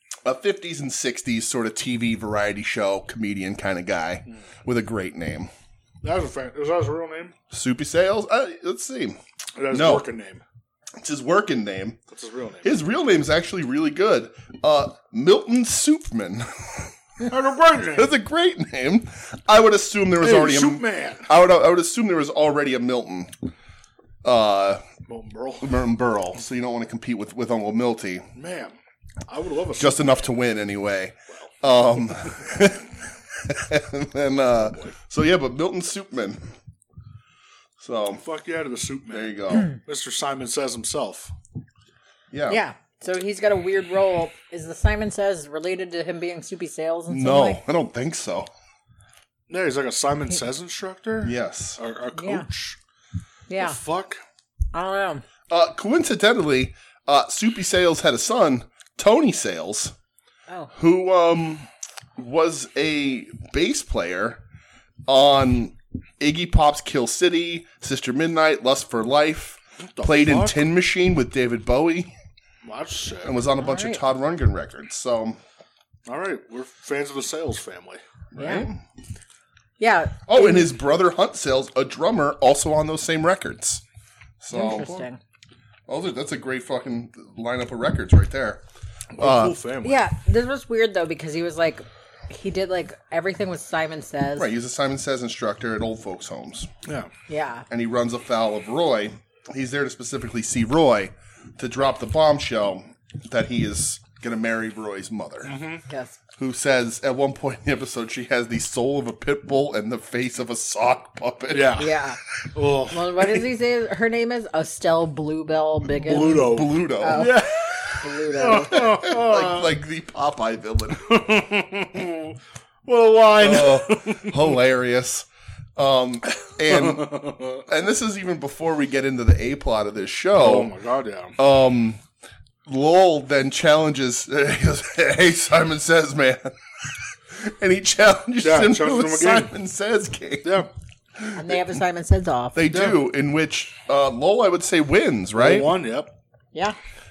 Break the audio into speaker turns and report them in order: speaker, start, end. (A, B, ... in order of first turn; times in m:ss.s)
0:00.2-0:05.5 A
0:06.0-0:07.4 B
0:07.5-0:09.2 A
0:09.6-0:10.4 B
0:09.7-0:10.0 A
0:11.0-0:12.0 A
0:12.1-0:12.7 B
0:12.6-0:17.2 A
0:17.3-0:18.1 B
0:18.0-0:23.4 A
0:20.2-0:21.3 B
0:24.2-0:24.8 A
0:25.1-0:25.8 B
0:25.6-0:28.3 A
0:28.4-0:28.8 B
0:29.3-0:30.2 B
0:29.8-0:36.5 A
0:37.8-0:38.2 A
0:38.2-0:41.3 B
0:39.1-0:39.7 A
0:42.3-0:42.6 A
0:42.5-0:47.6 C
0:47.1-0:48.5 A
0:49.5-0:52.8 B
0:51.2-0:51.8 A
0:52.2-0:52.5 C
0:53.5-0:53.8 C
0:53.6-0:54.2 B
0:54.7-0:55.2 C
0:55.5-0:59.9 A
1:00.7-1:04.4 A
1:05.1-1:12.1 A
1:09.9-1:10.6 B
1:12.6-1:13.4 B
1:13.2-1:15.4 A
1:13.6-1:14.0 C
1:16.1-1:18.0 B
1:18.3-1:18.8 A
1:18.4-1:18.7 C
1:19.8-1:20.7 C
1:20.3-1:23.8 A
1:24.4-1:25.0 A
1:24.5-1:25.2 C
1:25.9-1:28.6 A
1:29.1-1:30.1 B
1:29.2-1:29.6 A
1:29.8-1:34.5 C
1:34.4-1:36.7 A
1:36.8-1:37.1 B
1:37.3-1:37.7 C
1:37.7-1:45.6 A
1:45.4-1:45.8 B
1:45.9-1:46.2 C
1:46.4-1:51.8 A
1:51.5-1:51.9 B
1:51.8-1:52.2 C
1:52.5-1:53.4 B
1:52.9-1:58.9 C
1:56.0-1:59.8 B
1:56.3-1:57.4 A
1:58.7-2:01.2 A
2:01.0-2:04.4 B
2:03.4-2:10.7 A
2:06.6-2:07.6 B
2:10.4-2:11.4 B
2:11.4-2:12.0 A
2:12.7-2:20.6 A
2:18.4-2:19.5 B
2:20.4-2:20.7 B
2:21.2-2:21.8 A
2:21.3-2:22.6 C
2:22.5-2:25.7 A
2:22.7-2:23.0 B
2:25.4-2:26.2 B